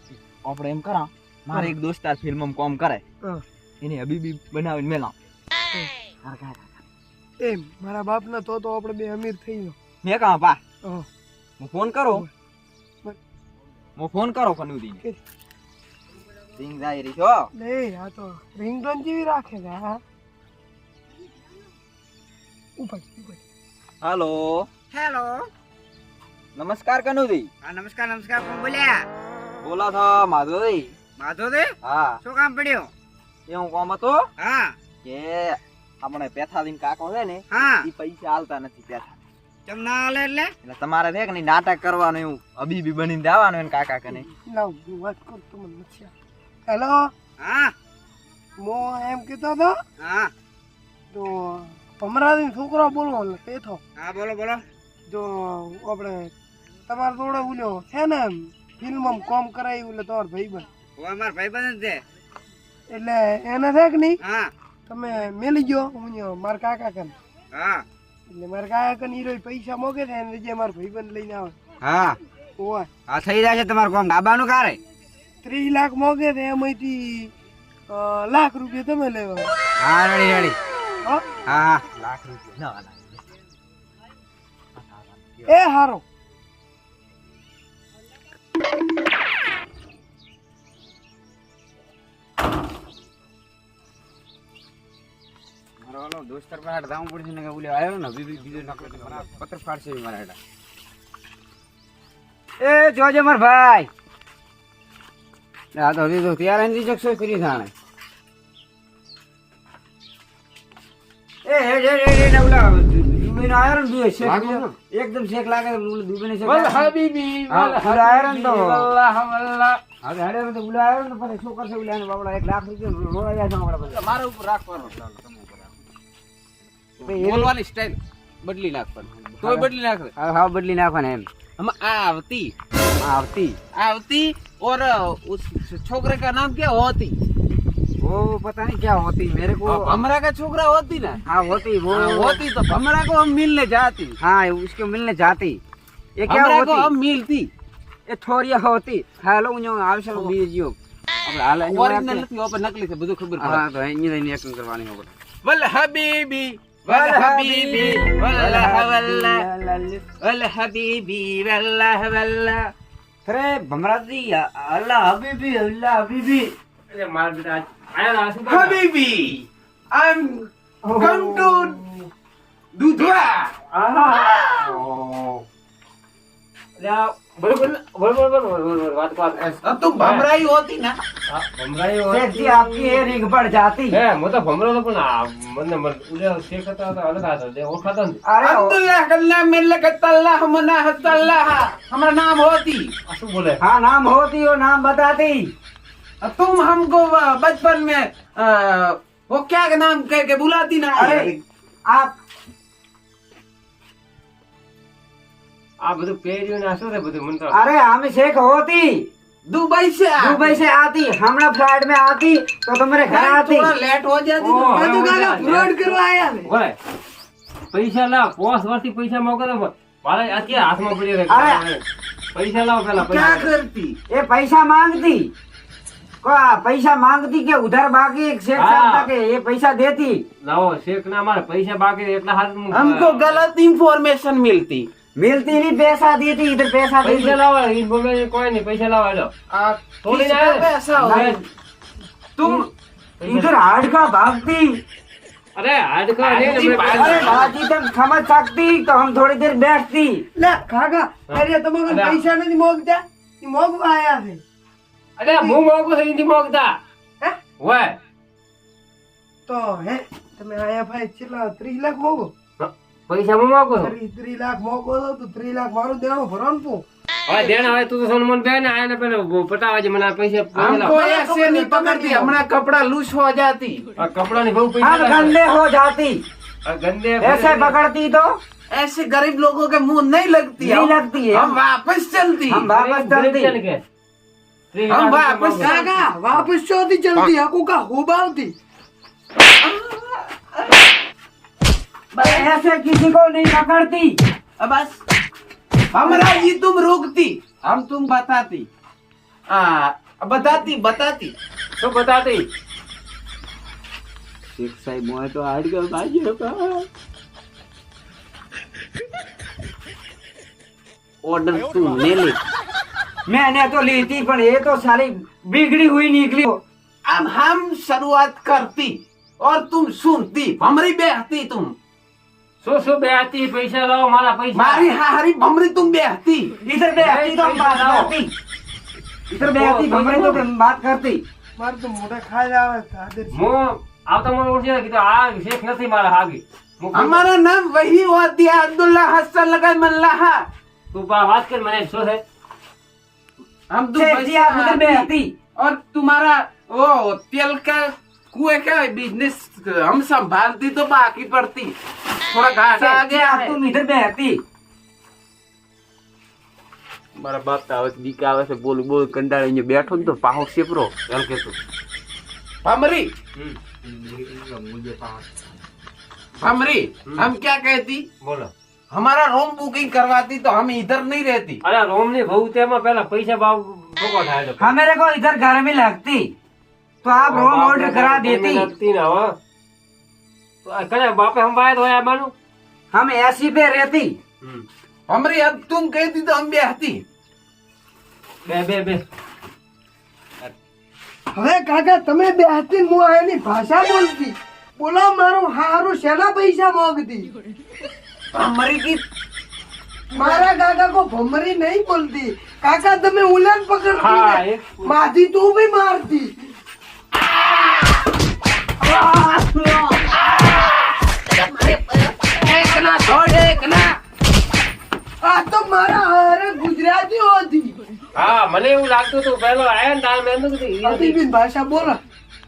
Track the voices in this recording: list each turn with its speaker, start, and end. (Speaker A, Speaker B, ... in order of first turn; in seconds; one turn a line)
Speaker A: 0.4-3.0
Speaker A: 3.8-5.1
Speaker A: 6.2-6.6
Speaker B: 7.4-9.8
Speaker A: 10.0-10.6
Speaker A: 11.6-12.3
Speaker A: 14.0-15.0
Speaker A: 16.6-17.5
Speaker B: 17.6-20.0
Speaker B: 22.8-23.4
Speaker A: 24.0-24.7
Speaker C: 24.9-25.5
Speaker A: 26.6-27.5
Speaker C: 27.6-29.1
Speaker A: 29.6-30.9
Speaker C: 31.2-32.9
Speaker A: 31.8-32.2
Speaker A: 33.5-34.3
Speaker C: 34.4-34.8
Speaker A: 35.0-39.2
Speaker C: 37.5-37.9
Speaker C: 39.7-40.5
Speaker A: 40.6-44.3
Speaker B: 44.5-46.1
Speaker B: 46.7-47.1
Speaker C: 47.4-47.7
Speaker B: 48.6-49.8
Speaker C: 50.0-50.3
Speaker B: 51.1-53.8
Speaker C: 54.0-54.6
Speaker B: 55.1-56.3
Speaker B: 56.9-60.7
Speaker C: 61.0-62.0
Speaker B: 62.9-64.2
Speaker C: 64.2-64.5
Speaker B: 64.9-67.1
Speaker C: 67.5-67.8
Speaker B: 68.3-71.5
Speaker C: 71.8-72.2
Speaker B: 72.6-72.9
Speaker C: 73.1-74.8
Speaker B: 75.4-77.3
Speaker B: 77.9-79.5
Speaker C: 79.8-80.6
Speaker B: 81.0-81.4
Speaker C: 81.5-81.9
Speaker A: 82.5-83.2
Speaker A: 84.8-85.2
Speaker B: 85.5-86.0
Speaker C: 95.8-100.4
Speaker C: 102.6-103.9
Speaker C: 105.8-107.7
Speaker C: 111.5-116.9
Speaker D: 114.2-114.7
Speaker D: 116.4-119.8
Speaker C: 117.5-118.9
Speaker C: 120.0-124.0
Speaker D: 123.9-125.2
Speaker D: 127.0-130.1
Speaker C: 127.0-127.5
Speaker C: 129.1-131.3
Speaker D: 131.6-132.5
Speaker C: 133.0-133.6
Speaker D: 133.8-137.2
Speaker C: 138.0-140.0
Speaker D: 139.7-141.2
Speaker C: 141.3-142.4
Speaker D: 141.9-144.2
Speaker C: 144.2-145.6
Speaker C: 146.2-146.9
Speaker D: 146.3-147.5
Speaker C: 148.1-152.2
Speaker D: 151.5-153.6
Speaker C: 153.4-155.1
Speaker D: 155.4-159.5
Speaker C: 156.9-160.2
Speaker D: 160.2-162.7
Speaker C: 163.2-166.5
Speaker E: 166.9-168.8
Speaker D: 168.5-171.8
Speaker B: 170.8-172.1
Speaker D: 172.8-173.5
Speaker E: 173.7-175.4
Speaker E: 176.8-180.2
Speaker D: 179.4-181.0
Speaker E: 181.3-183.1
Speaker C: 182.1-184.0
Speaker E: 183.9-188.2
Speaker C: 188.2-188.8
Speaker D: 188.4-192.9
Speaker E: 193.1-193.6
Speaker C: 193.6-195.5
Speaker D: 196.2-201.4
Speaker C: 200.9-202.2
Speaker E: 205.8-207.6
Speaker C: 207.5-209.1
Speaker D: 209.5-210.6
Speaker C: 210.2-213.7
Speaker D: 213.1-215.4
Speaker E: 214.4-215.7
Speaker B: 214.7-216.5
Speaker E: 216.5-216.8
Speaker E: 217.7-223.5
Speaker C: 221.3-221.7
Speaker D: 223.0-224.0
Speaker C: 224.1-225.3
Speaker C: 226.2-230.2
Speaker E: 228.6-229.1
Speaker E: 230.4-233.4
Speaker D: 232.7-234.9
Speaker C: 235.2-237.4
Speaker E: 237.0-239.3
Speaker D: 239.5-241.4
Speaker E: 240.0-241.3
Speaker C: 241.0-241.4
Speaker D: 242.4-242.6
Speaker E: 243.2-243.6
Speaker C: 243.2-244.8
Speaker E: 245.6-247.4
Speaker D: 246.2-247.5
Speaker C: 247.0-250.2
Speaker B: 250.4-254.4
Speaker E: 251.3-252.2
Speaker E: 255.2-256.8
Speaker E: 257.6-258.0
Speaker B: 259.5-262.3
Speaker E: 262.6-263.9
Speaker B: 263.8-266.9
Speaker E: 267.3-270.9
Speaker D: 267.4-267.7
Speaker D: 270.6-273.9
Speaker B: 270.8-272.4
Speaker E: 274.0-275.4
Speaker C: 274.8-276.2
Speaker E: 276.7-277.8
Speaker C: 277.2-278.4
Speaker D: 278.7-282.7
Speaker C: 280.6-281.6
Speaker C: 282.5-283.6
Speaker E: 282.7-283.8
Speaker E: 284.7-285.8
Speaker D: 284.9-286.0
Speaker B: 285.6-288.5
Speaker D: 289.6-290.7
Speaker D: 292.1-292.5
Speaker C: 292.1-294.2
Speaker D: 294.6-295.0
Speaker D: 295.9-298.7
Speaker D: 299.5-301.3
Speaker E: 301.8-302.5
Speaker C: 304.5-306.9
Speaker D: 311.2-312.4
Speaker C: 313.3-316.6
Speaker D: 317.1-321.7
Speaker E: 322.6-324.9
Speaker D: 324.6-326.6
Speaker C: 326.6-328.3
Speaker E: 327.0-328.1
Speaker C: 329.3-331.2
Speaker E: 329.4-330.4
Speaker B: 331.6-333.4
Speaker E: 333.3-337.2
Speaker D: 336.9-340.4
Speaker E: 340.9-342.2
Speaker D: 343.7-351.8
Speaker C: 343.9-345.3
Speaker D: 352.3-353.6
Speaker C: 352.8-354.4
Speaker E: 357.2-358.9
Speaker D: 358.7-360.9
Speaker E: 359.8-361.5
Speaker D: 362.6-363.1
Speaker C: 364.0-364.9
Speaker D: 366.4-368.1
Speaker E: 368.2-368.5
Speaker D: 368.9-371.6
Speaker E: 371.6-374.7
Speaker C: 374.6-376.3
Speaker C: 377.0-378.7
Speaker E: 377.1-379.3
Speaker E: 380.6-382.3
Speaker C: 382.9-384.2
Speaker D: 385.1-387.0
Speaker E: 388.5-389.0
Speaker B: 391.3-397.3
Speaker D: 398.3-399.0
Speaker B: 400.1-406.3
Speaker D: 400.1-400.4
Speaker E: 403.9-404.9
Speaker D: 408.8-410.7
Speaker D: 411.3-414.0
Speaker B: 415.2-417.8
Speaker E: 418.1-421.2
Speaker B: 420.8-422.0